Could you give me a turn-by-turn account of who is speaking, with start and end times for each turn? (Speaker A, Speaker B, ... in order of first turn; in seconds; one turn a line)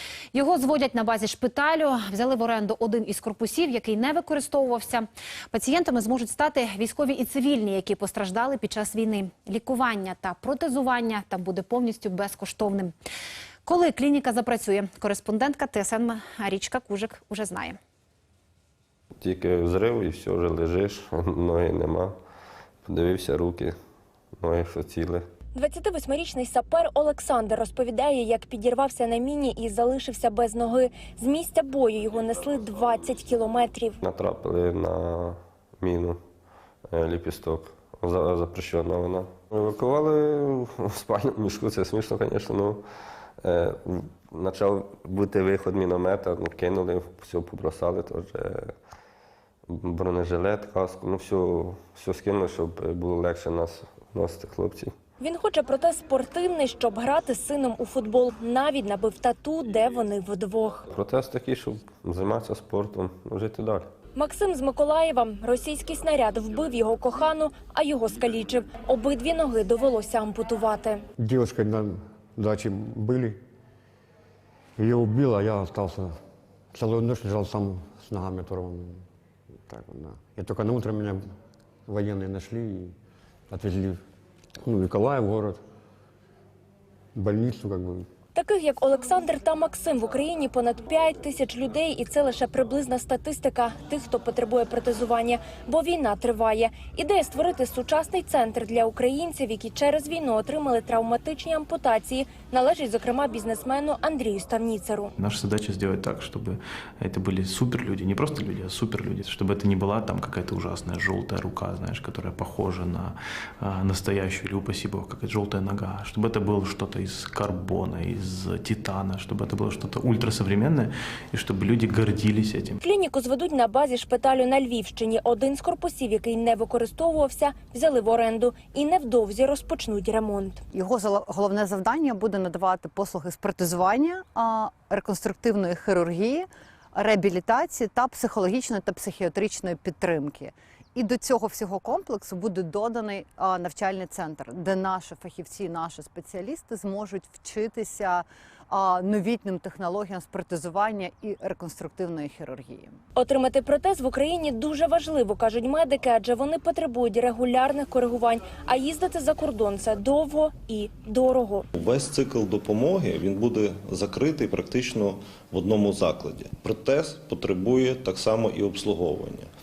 Speaker A: 0.3-12.9
Speaker A: 13.6-17.8
Speaker B: 19.2-22.1
Speaker B: 22.8-23.7
Speaker B: 24.4-25.2
Speaker C: 25.5-34.0
Speaker B: 34.0-36.2
Speaker B: 36.9-42.8
Speaker B: 43.4-48.7
Speaker B: 49.7-54.9
Speaker C: 55.2-60.9
Speaker B: 60.9-63.9
Speaker C: 64.2-71.0
Speaker D: 71.2-73.4
Speaker D: 74.8-76.1
Speaker D: 76.7-79.0
Speaker D: 79.7-81.2
Speaker D: 81.9-82.9
Speaker D: 83.5-84.0
Speaker D: 84.6-85.6
Speaker D: 87.1-88.1
Speaker C: 88.3-105.1
Speaker E: 105.2-122.8
Speaker C: 122.8-130.6
Speaker F: 130.7-152.9
Speaker C: 153.2-161.7
Speaker G: 161.7-169.5